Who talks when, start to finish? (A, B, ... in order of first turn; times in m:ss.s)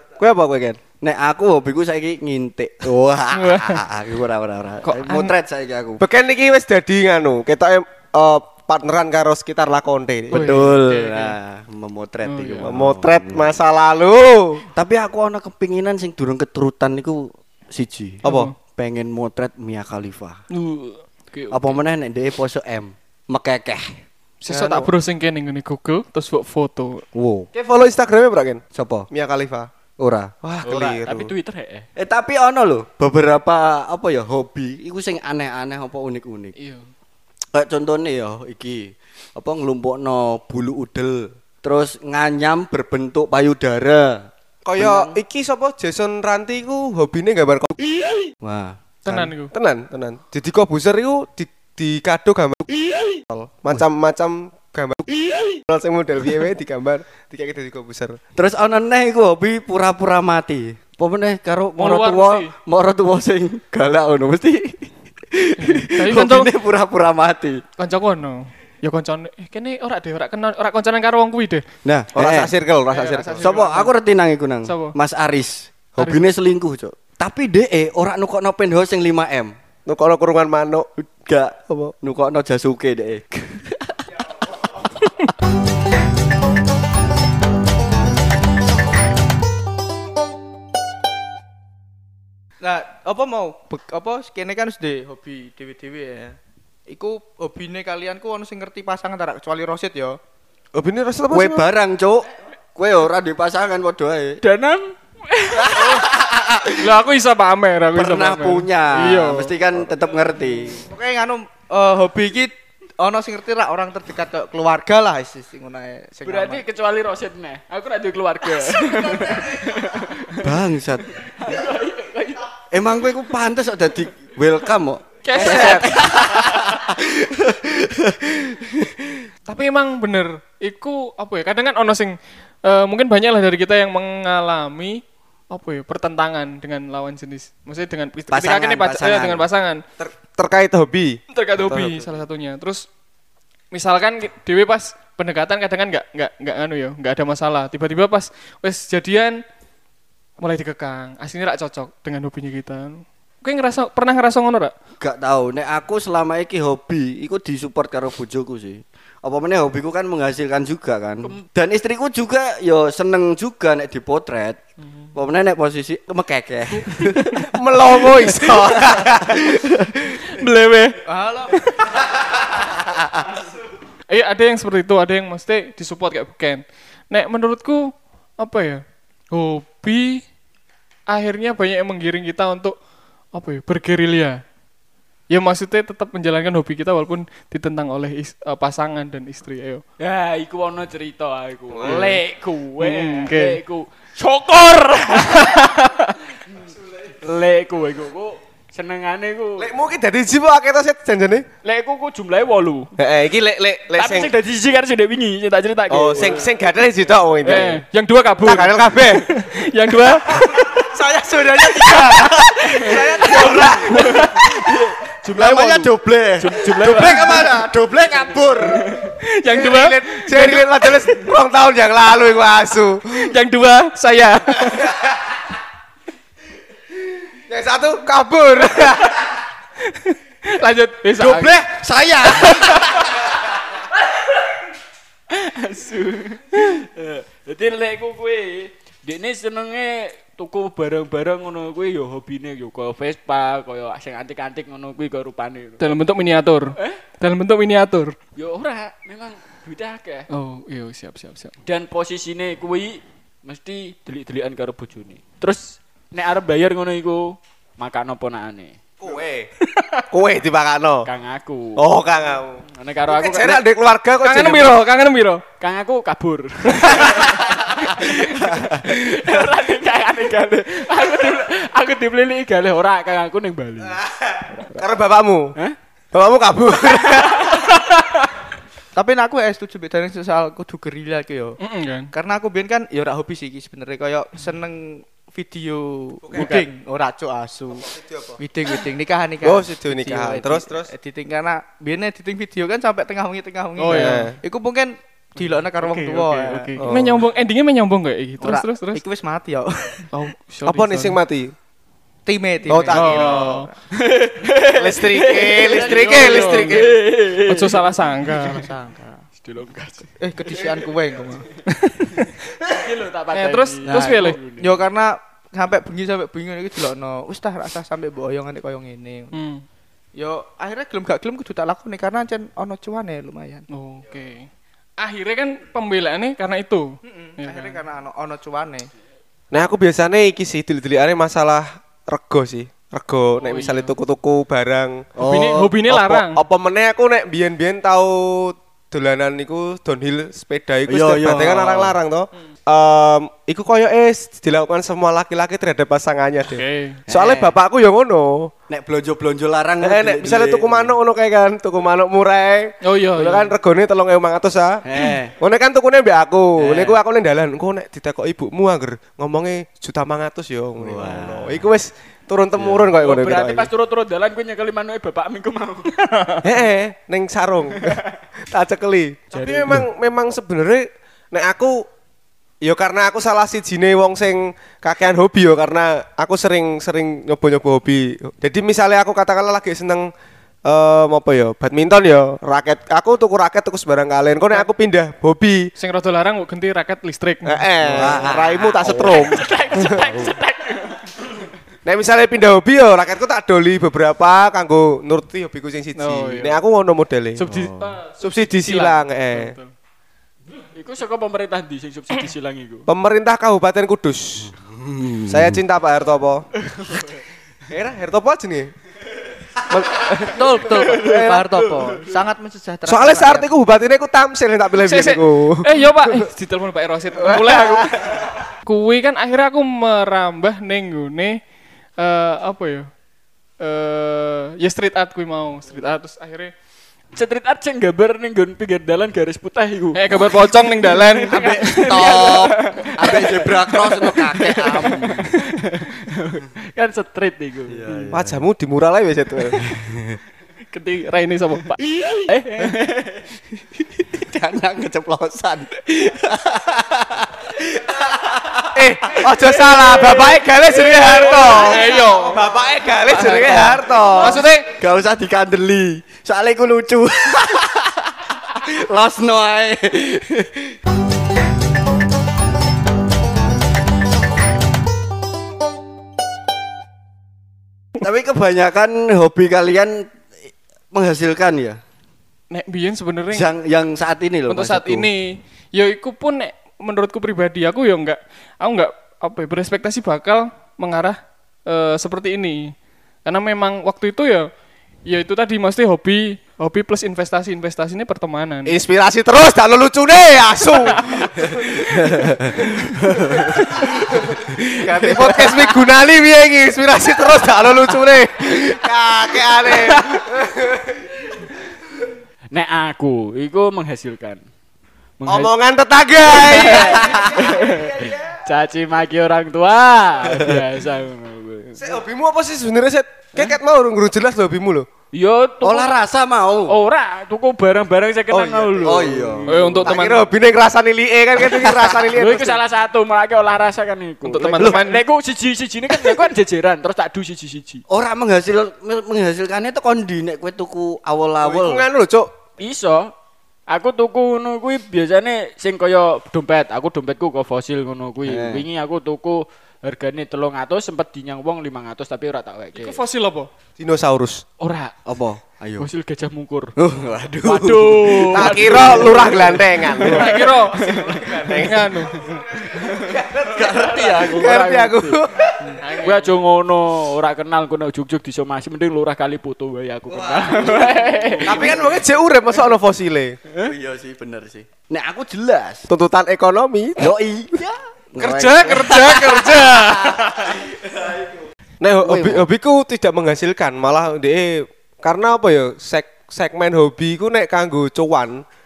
0:00.2-0:00.8 A
0:00.8-0:06.0 B
0:03.3-0:03.8 C
0:04.9-0:05.3 C
0:06.0-0:10.6 A
0:10.3-0:13.5 B
0:10.3-0:11.4 C
0:12.3-0:12.7 C
0:12.6-0:14.6 A
0:14.8-0:18.2 B
0:18.2-0:18.5 A
0:18.2-0:18.5 C
0:18.8-0:20.4 B
0:20.5-0:21.8 C
0:21.5-0:24.0 B
0:24.4-0:27.0 C
0:24.5-0:24.9 A
0:27.1-0:27.5 B
0:27.5-0:29.7 A
0:28.7-0:29.1 B
0:30.0-0:30.3 B
0:30.4-0:31.3 A
0:30.6-0:31.9 D
0:32.0-0:36.6 B
0:36.6-0:36.9 C
0:37.5-0:44.3 B
0:44.6-0:47.8 A
0:44.8-0:45.1 B
0:48.4-0:49.4 B
0:49.1-0:49.5 C
0:49.5-0:52.7 A
0:53.3-0:55.0 A
0:55.7-0:58.2 A
0:58.4-1:07.6 B
1:01.8-1:02.5 C
1:05.6-1:06.5 C
1:07.8-1:11.6 C
1:11.8-1:12.5 B
1:12.2-1:13.6 A
1:12.9-1:14.0 C
1:13.4-1:19.5 B
1:14.7-1:15.0 C
1:19.9-1:20.9 A
1:21.0-1:23.7 B
1:21.7-1:21.9 A
1:32.6-1:40.2 E
1:40.7-1:41.7 A
1:41.3-1:44.4 B
1:44.4-1:45.8 D
1:45.6-1:46.9 B
1:46.8-1:49.6 C
1:47.9-1:50.9 B
1:50.8-1:56.6 E
1:56.2-2:00.4 D
2:00.4-2:01.1 B
2:01.2-2:02.5 D
2:02.7-2:09.2 B
2:05.2-2:06.3 C
2:09.5-2:19.8 C
2:18.3-2:19.5 B
2:20.0-2:22.1 A
2:21.3-2:22.9 C
2:23.7-2:29.4 C
2:30.4-2:34.7 C
2:35.0-2:44.6 B
2:45.2-2:47.4 B
2:47.4-2:49.5 A
2:50.2-2:51.0 C
2:51.1-2:51.6 E
2:51.5-2:51.8 C
2:54.1-3:00.2 C
3:01.1-3:02.8 C
3:03.3-3:04.4 C
3:05.3-3:09.8 C
3:10.0-3:15.7 D
3:11.8-3:12.2 C
3:12.8-3:13.6 C
3:15.2-3:16.2 C
3:16.5-3:19.7 D
3:19.6-3:21.5 A
3:21.6-3:22.9 D
3:23.0-3:24.3 A
3:23.9-3:26.5 D
3:25.9-3:27.8 A
3:27.4-3:30.7 C
3:27.5-3:27.8 D
3:28.4-3:29.3 A
3:30.7-3:34.2 E
3:31.8-3:34.6 C
3:33.9-3:39.0 B
3:35.2-3:35.9 D
3:36.4-3:37.5 D
3:36.8-3:37.4 C
3:38.7-3:39.1 D
3:39.2-3:41.1 C
3:39.5-3:43.3 A
3:43.1-3:44.9 C
3:44.6-3:45.4 A
3:47.4-3:49.4 A
3:49.9-3:51.7 C
3:51.2-3:53.1 B
3:52.5-3:52.9 C
3:55.3-4:05.9 D
4:05.8-4:08.2 C
4:06.8-4:07.0 D
4:08.4-4:10.3 D
4:10.3-4:11.6 C
4:11.6-4:18.8 D
4:19.0-4:19.5 A
4:19.8-4:20.0 C
4:20.1-4:21.1 A
4:21.1-4:21.8 D
4:21.8-4:24.8 A
4:22.8-4:23.6 D
4:24.2-4:25.4 C
4:25.6-4:34.0 D
4:33.9-4:35.6 A
4:36.1-4:37.6 A
4:37.2-4:37.6 D
4:39.0-4:41.6 E
4:41.6-4:42.1 C
4:42.1-4:56.8 E
4:46.2-4:46.6 A
4:47.8-4:48.4 A
4:49.4-4:50.9 A
4:53.8-4:54.4 C
4:53.9-4:54.4 A
4:55.4-4:59.0 C
4:56.8-4:57.2 A
4:58.4-5:00.1 E
5:00.1-5:01.2 C
5:00.6-5:01.6 A
5:02.3-5:03.8 E
5:02.7-5:03.6 A
5:02.8-5:03.7 C
5:03.9-5:08.0 D
5:04.8-5:07.0 A
5:05.9-5:08.7 C
5:05.9-5:06.3 E
5:08.3-5:09.2 E
5:09.4-5:10.7 D
5:10.2-5:11.5 E
5:11.7-5:12.4 C
5:12.6-5:14.8 D
5:13.3-5:14.4 C
5:13.8-5:19.4 E
5:19.3-5:19.6 C
5:20.2-5:23.7 E
5:23.7-5:24.5 C
5:25.0-5:27.8 C
5:27.0-5:28.9 E
5:29.5-5:35.1 A
5:33.4-5:33.9 C
5:35.2-5:35.8 B
5:35.2-5:36.4 C
5:35.9-5:48.5 A
5:40.9-5:42.0 B
5:46.5-5:47.0 C
5:47.1-5:47.6 B
5:48.7-5:50.9 B
5:49.8-5:54.8 A
5:52.8-5:53.5 C
5:54.8-5:55.3 B
5:55.4-6:03.7 A
5:56.6-5:57.0 B
6:00.8-6:01.6 B
6:02.8-6:06.0 D
6:06.1-6:06.4 C
6:06.4-6:08.0 A
6:08.5-6:11.9 A
6:09.3-6:09.8 D
6:12.6-6:20.1 A
6:20.7-6:25.7 A
6:25.8-6:27.6 C
6:27.4-6:30.2 A
6:27.8-6:29.1 B
6:28.9-6:31.3 D
6:31.8-6:37.5 A
6:36.0-6:36.6 C
6:37.4-6:39.7 C
6:37.5-6:37.9 B
6:38.2-6:39.5 A
6:40.8-6:42.9 D
6:42.9-6:44.5 A
6:44.7-6:45.6 B
6:45.3-6:46.5 A
6:46.8-6:47.2 D
6:47.7-6:48.7 A
6:49.7-6:51.4 A
6:50.3-6:53.5 E
6:52.9-6:56.3 A
6:54.8-7:01.4 C
6:57.2-6:58.4 A
7:02.0-7:02.9 C
7:03.6-7:06.5 C
7:07.1-7:18.1 D
7:10.0-7:12.2 C
7:11.3-7:15.3 B
7:17.7-7:18.4 B
7:18.1-7:19.6 A
7:19.7-7:20.2 B
7:20.7-7:21.8 C
7:22.3-7:23.2 D
7:24.1-7:28.6 B
7:28.7-7:34.5 A
7:29.7-7:32.0 D
7:31.3-7:32.4 C
7:33.1-7:34.7 C
7:34.8-7:40.7 B
7:48.0-7:50.1 B
7:50.9-7:51.8 B
7:52.5-7:53.5 C
7:53.3-7:55.1 B
7:54.5-8:02.7 C
8:03.2-8:04.5 C
8:05.0-8:08.7 C
8:08.7-8:11.8 A
8:11.9-8:14.5 B
8:13.8-8:21.2 A
8:22.5-8:24.4 D
8:25.2-8:25.5 D
8:25.3-8:28.3 A
8:26.3-8:31.8 D
8:30.3-8:30.6 B
8:31.8-8:34.9 A
8:35.1-8:35.9 D
8:35.6-8:36.8 B
8:36.7-8:40.0 D
8:38.3-8:39.1 A
8:38.8-8:39.5 B
8:39.5-8:40.2 C
8:39.8-8:42.6 A
8:42.1-8:47.8 D
8:44.2-8:45.0 C
8:47.9-8:51.9 B
8:51.4-8:52.3 A
8:52.6-8:53.1 D
8:53.7-9:03.0 D
8:58.3-8:58.6 B
9:02.7-9:03.5 C
9:03.8-9:04.4 A
9:04.6-9:05.0 D
9:05.1-9:05.9 B
9:05.8-9:06.7 D
9:06.8-9:08.3 B
9:07.4-9:11.5 D
9:08.3-9:12.3 A
9:10.1-9:11.0 C
9:11.6-9:12.4 C
9:12.8-9:15.2 D
9:13.0-9:15.8 A
9:13.4-9:14.6 B
9:15.8-9:16.4 C
9:16.0-9:21.8 D
9:20.1-9:21.6 B
9:21.5-9:23.4 A
9:23.6-9:25.9 B
9:25.9-9:27.1 A
9:27.0-9:31.5 B
9:28.2-9:30.6 C
9:31.8-9:38.4 A
9:32.0-9:32.4 B